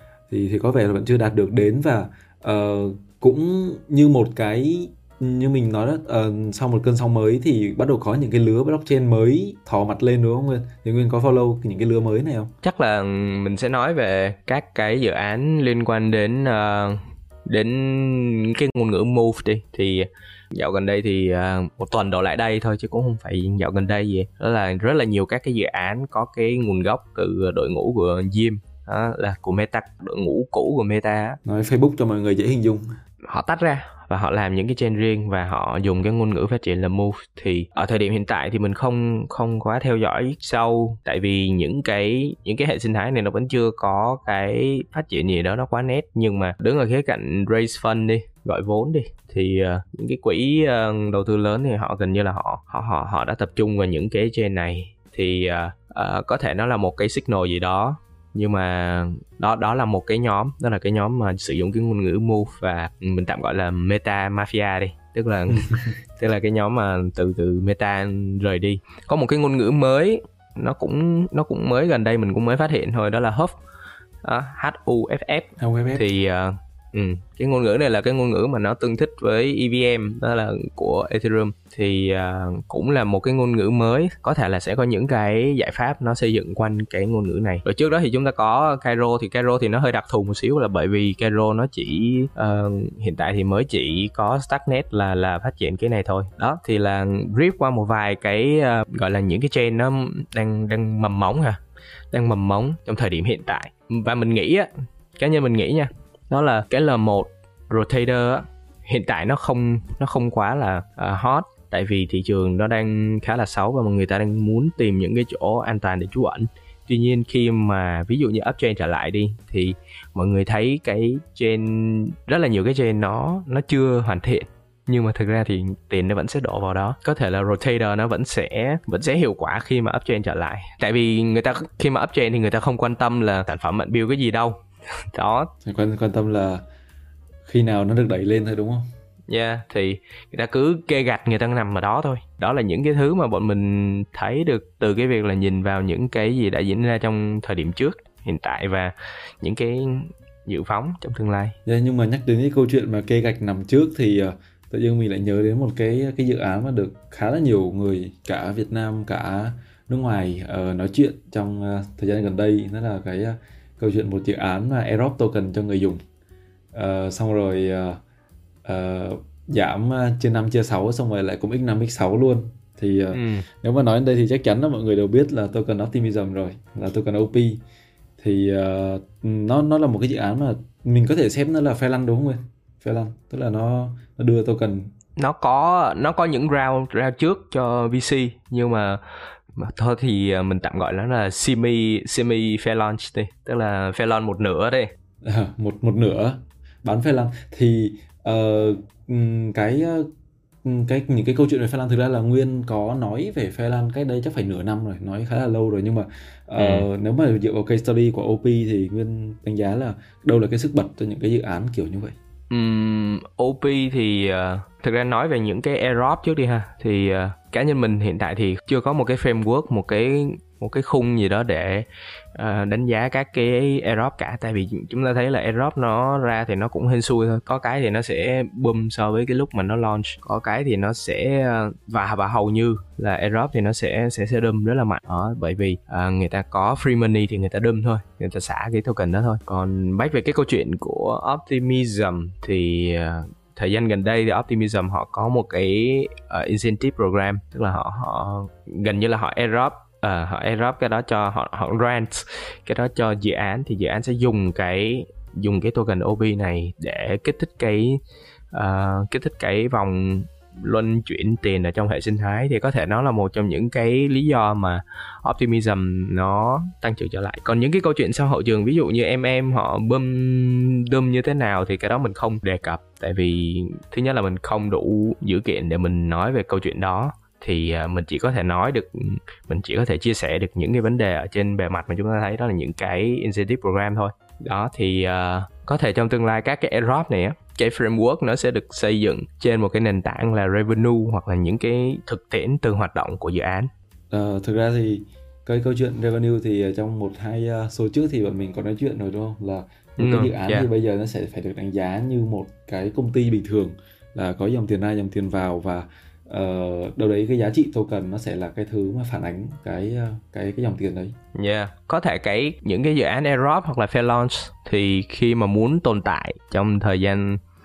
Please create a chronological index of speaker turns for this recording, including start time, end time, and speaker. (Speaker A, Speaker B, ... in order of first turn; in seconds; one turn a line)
Speaker A: 0.3-12.5
Speaker B: 12.6-31.4
Speaker A: 31.4-32.9
Speaker B: 33.3-73.6
Speaker A: 65.6-65.9
Speaker B: 74.2-101.6
Speaker A: 75.6-76.1
Speaker B: 102.1-134.6
Speaker B: 135.1-135.5
Speaker A: 135.7-136.6
Speaker A: 137.5-138.8
Speaker B: 139.3-151.6
Speaker A: 151.7-166.0
Speaker A: 166.7-168.0
Speaker A: 168.7-177.6
Speaker B: 173.1-173.5
Speaker A: 178.2-184.9
Speaker B: 185.2-189.0
Speaker B: 189.6-194.9
Speaker A: 195.2-200.1
Speaker A: 200.6-212.2
Speaker B: 206.6-206.9
Speaker B: 212.5-258.0
Speaker B: 258.5-293.7
Speaker A: 294.1-311.1
Speaker B: 300.0-300.7
Speaker B: 311.4-317.4